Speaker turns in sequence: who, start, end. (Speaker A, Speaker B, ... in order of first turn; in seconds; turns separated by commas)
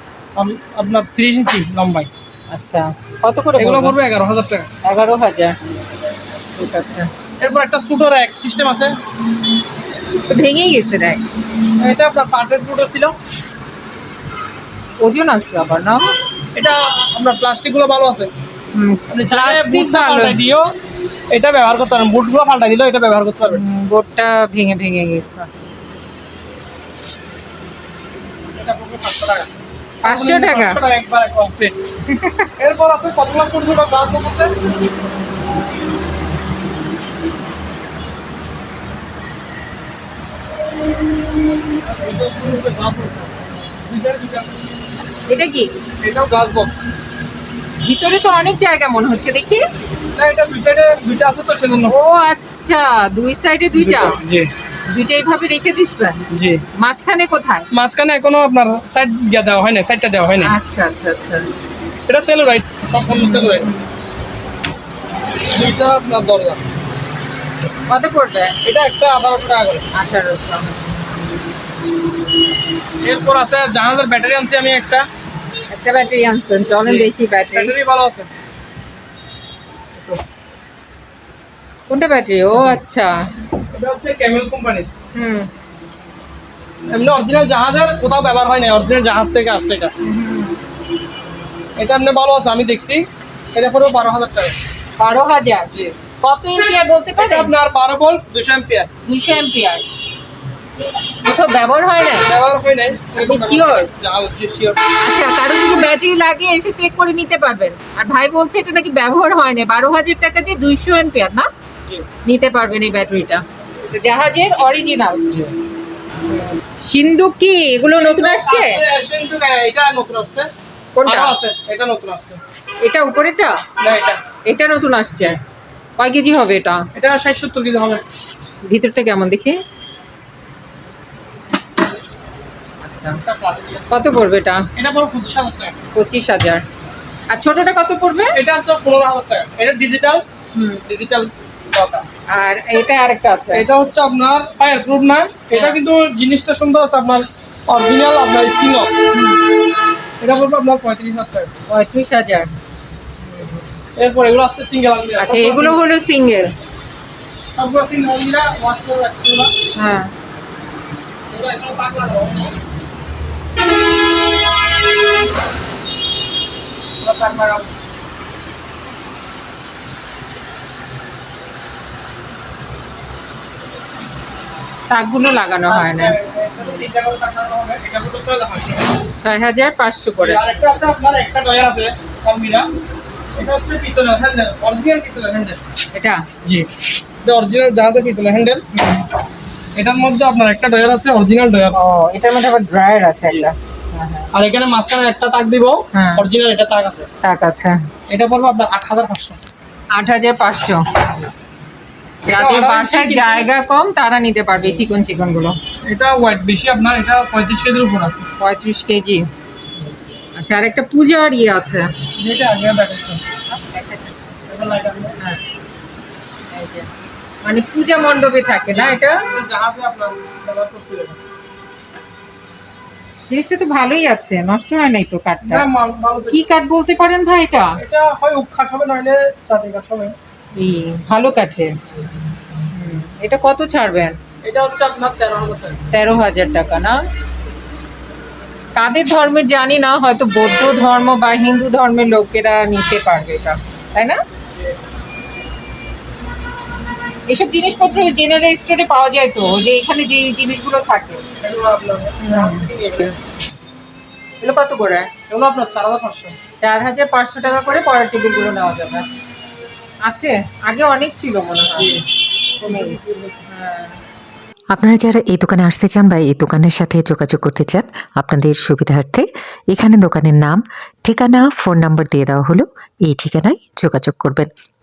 Speaker A: 0.4-2.1, Speaker B: 2.5-4.0, Speaker A: 3.6-4.7, Speaker B: 4.8-5.6, Speaker B: 6.6-7.1, Speaker A: 7.4-9.0, Speaker B: 10.3-11.2, Speaker A: 11.8-13.2, Speaker B: 15.0-16.1, Speaker A: 16.6-18.3, Speaker B: 18.7-20.4, Speaker A: 19.1-20.7, Speaker A: 21.3-23.6, Speaker B: 23.5-25.5, Speaker A: 28.6-29.5, Speaker A: 30.0-31.8, Speaker B: 30.0-30.8, Speaker B: 32.1-32.5, Speaker A: 32.6-34.6, Speaker A: 41.8-44.5, Speaker B: 45.3-45.7, Speaker A: 46.0-46.8, Speaker B: 47.8-49.7, Speaker A: 50.2-51.9, Speaker B: 51.9-54.2, Speaker A: 53.8-54.5, Speaker B: 54.9-57.7, Speaker A: 56.3-56.6, Speaker A: 57.7-60.5, Speaker B: 60.4-61.5, Speaker A: 62.1-63.7, Speaker B: 63.1-63.8, Speaker A: 65.5-66.6, Speaker B: 67.9-68.5, Speaker A: 68.6-69.9, Speaker B: 69.9-70.7, Speaker A: 73.0-75.1, Speaker B: 75.7-77.8, Speaker A: 76.8-78.3, Speaker B: 81.9-83.3, Speaker A: 83.7-84.9, Speaker B: 85.1-85.5, Speaker A: 86.9-89.9, Speaker B: 90.0-90.6, Speaker A: 91.8-94.6, Speaker B: 95.0-97.5, Speaker A: 97.2-98.9, Speaker B: 99.0-99.8, Speaker B: 101.2-102.3, Speaker A: 102.2-104.8, Speaker B: 103.2-103.9, Speaker B: 105.0-111.5, Speaker B: 112.2-115.2, Speaker B: 116.8-118.8, Speaker A: 117.9-120.5, Speaker B: 121.0-121.3, Speaker A: 121.0-122.4, Speaker B: 122.8-123.6, Speaker A: 123.8-124.2, Speaker B: 124.5-125.4, Speaker B: 126.0-126.9, Speaker A: 127.0-128.0, Speaker B: 128.7-129.6, Speaker B: 132.8-133.2, Speaker A: 133.2-133.9, Speaker B: 133.9-134.7, Speaker A: 134.8-135.8, Speaker B: 135.9-136.6, Speaker B: 137.3-138.4, Speaker A: 138.3-140.2, Speaker B: 140.5-140.8, Speaker A: 140.9-142.1, Speaker B: 142.3-143.7, Speaker A: 143.5-148.9, Speaker B: 149.1-149.5, Speaker A: 150.2-151.5, Speaker B: 151.7-152.5, Speaker A: 154.0-155.8, Speaker B: 155.2-156.5, Speaker A: 157.6-159.6, Speaker B: 159.7-160.1, Speaker A: 161.3-162.6, Speaker A: 167.0-167.7, Speaker B: 174.9-176.2, Speaker A: 175.7-178.9, Speaker B: 179.2-180.4, Speaker A: 180.2-182.7, Speaker A: 183.4-185.6, Speaker B: 185.9-186.2, Speaker A: 187.2-188.6, Speaker B: 188.7-189.0, Speaker A: 189.8-191.8, Speaker B: 191.8-194.3, Speaker A: 194.3-197.1, Speaker B: 195.9-196.2, Speaker B: 197.2-197.8, Speaker A: 198.1-199.4, Speaker B: 199.9-200.9, Speaker B: 202.3-205.6, Speaker A: 202.3-203.5, Speaker A: 205.9-208.3, Speaker B: 208.4-209.3, Speaker B: 210.4-211.9, Speaker A: 212.2-213.2, Speaker B: 213.5-214.2, Speaker A: 214.5-215.2, Speaker B: 216.5-216.9, Speaker B: 217.4-219.3, Speaker A: 218.7-221.2, Speaker B: 223.3-225.7, Speaker A: 225.5-226.4, Speaker B: 226.3-227.8, Speaker A: 227.8-230.2, Speaker B: 230.6-231.8, Speaker B: 232.7-234.2, Speaker A: 234.4-235.8, Speaker B: 235.9-237.0, Speaker B: 238.8-244.2, Speaker B: 247.3-251.2, Speaker A: 251.4-253.2, Speaker B: 252.2-252.7, Speaker B: 254.4-255.1, Speaker A: 255.3-256.4, Speaker B: 256.6-259.1, Speaker B: 260.0-261.9, Speaker A: 261.7-262.1, Speaker A: 262.6-263.4, Speaker B: 262.6-264.0, Speaker C: 264.7-274.5